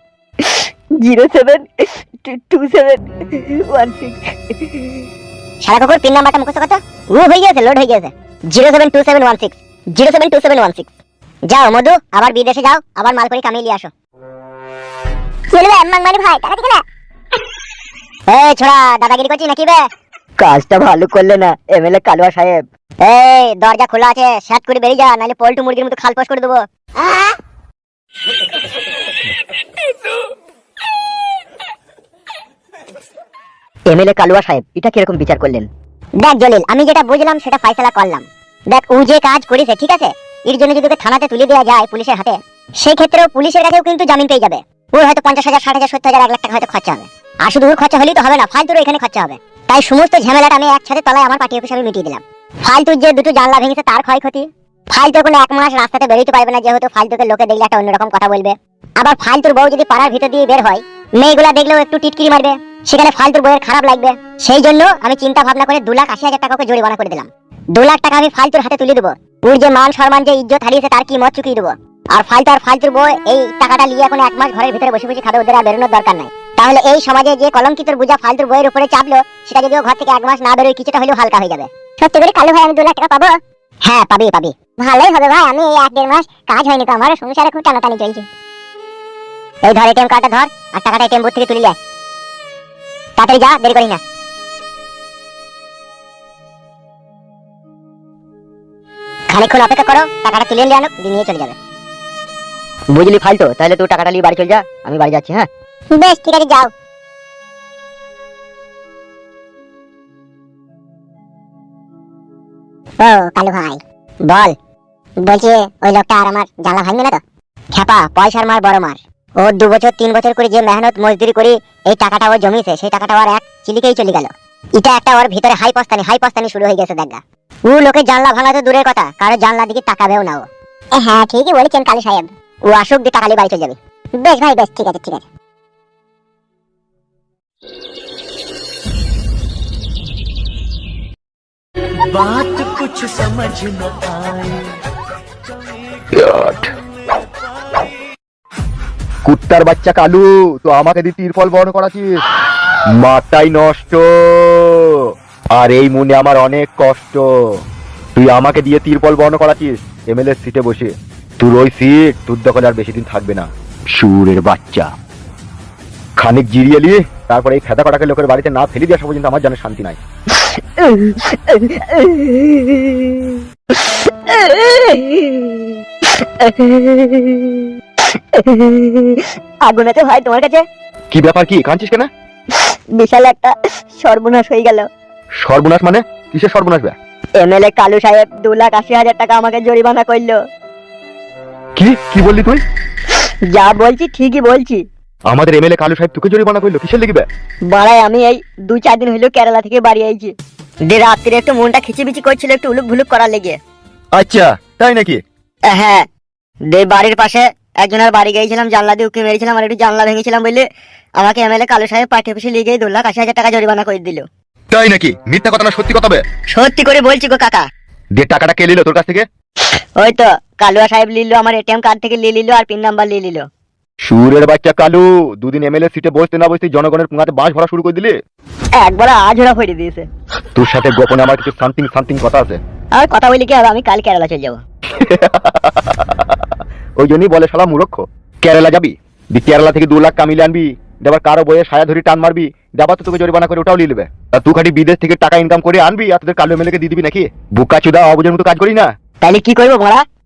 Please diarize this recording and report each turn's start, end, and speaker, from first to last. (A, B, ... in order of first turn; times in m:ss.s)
0:00.4-0:05.0 A
0:05.6-0:10.9 B
0:11.5-0:13.9 B
0:15.5-0:16.8 B
0:18.3-0:19.8 B
0:20.4-0:22.6 A
0:23.0-0:27.4 B
0:33.9-0:35.7 A
0:36.2-1:28.2 B
1:29.6-1:31.8 B
1:33.2-1:34.0 B
1:39.3-1:41.6 B
1:42.9-1:45.5 A
1:46.0-1:46.7 B
1:53.0-1:54.5 B
1:55.2-1:57.2 B
1:57.7-2:15.2 B
2:22.2-2:24.5 C
2:26.1-2:26.7 D
2:29.2-2:32.0 D
2:33.0-2:35.0 D
2:35.6-2:37.2 D
2:38.1-2:44.9 D
2:46.2-2:50.0 D
2:50.3-3:00.6 A
3:01.1-3:02.1 D
3:02.5-3:04.9 A
3:05.4-3:07.0 D
3:07.4-3:10.4 A
3:11.8-3:12.6 D
3:13.2-3:14.8 A
3:15.3-3:17.3 D
3:17.7-3:20.3 A
3:20.9-3:23.6 A
3:24.1-3:25.2 D
3:25.7-3:26.1 A
3:26.7-3:30.6 A
3:31.2-3:34.2 A
3:34.7-3:36.2 D
3:36.5-3:37.6 A
3:38.2-3:39.2 D
3:40.0-3:43.4 A
3:44.0-3:48.2 D
3:48.8-3:50.1 A
3:50.6-3:52.6 D
3:52.9-3:54.6 A
3:55.0-3:56.2 D
3:57.0-4:08.9 D
4:09.2-4:10.0 A